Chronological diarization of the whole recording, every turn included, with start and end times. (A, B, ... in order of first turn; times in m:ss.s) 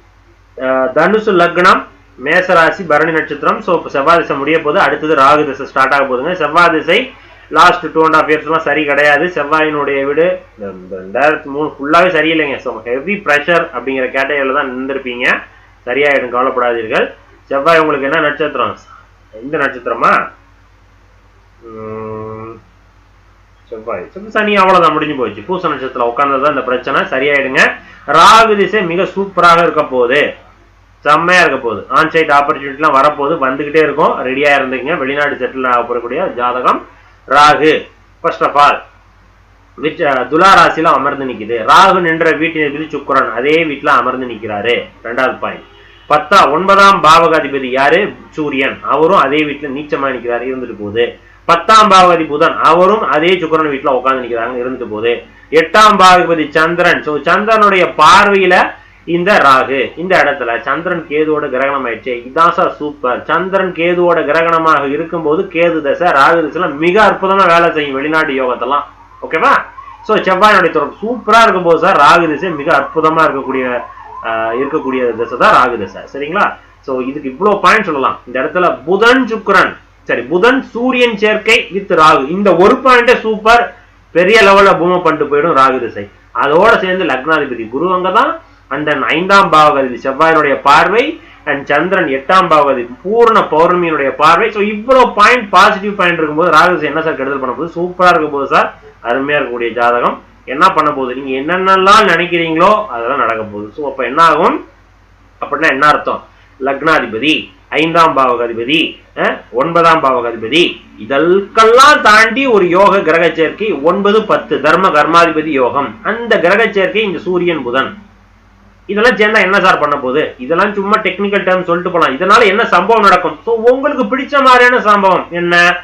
0:00.6-0:20.2 A
0:21.6-0:22.6 A
0:23.7-0:30.2 A
0:31.0-0:38.8 A
0:39.8-1:23.6 A
1:24.1-1:44.6 A
1:45.4-1:57.9 A
1:58.9-2:05.6 A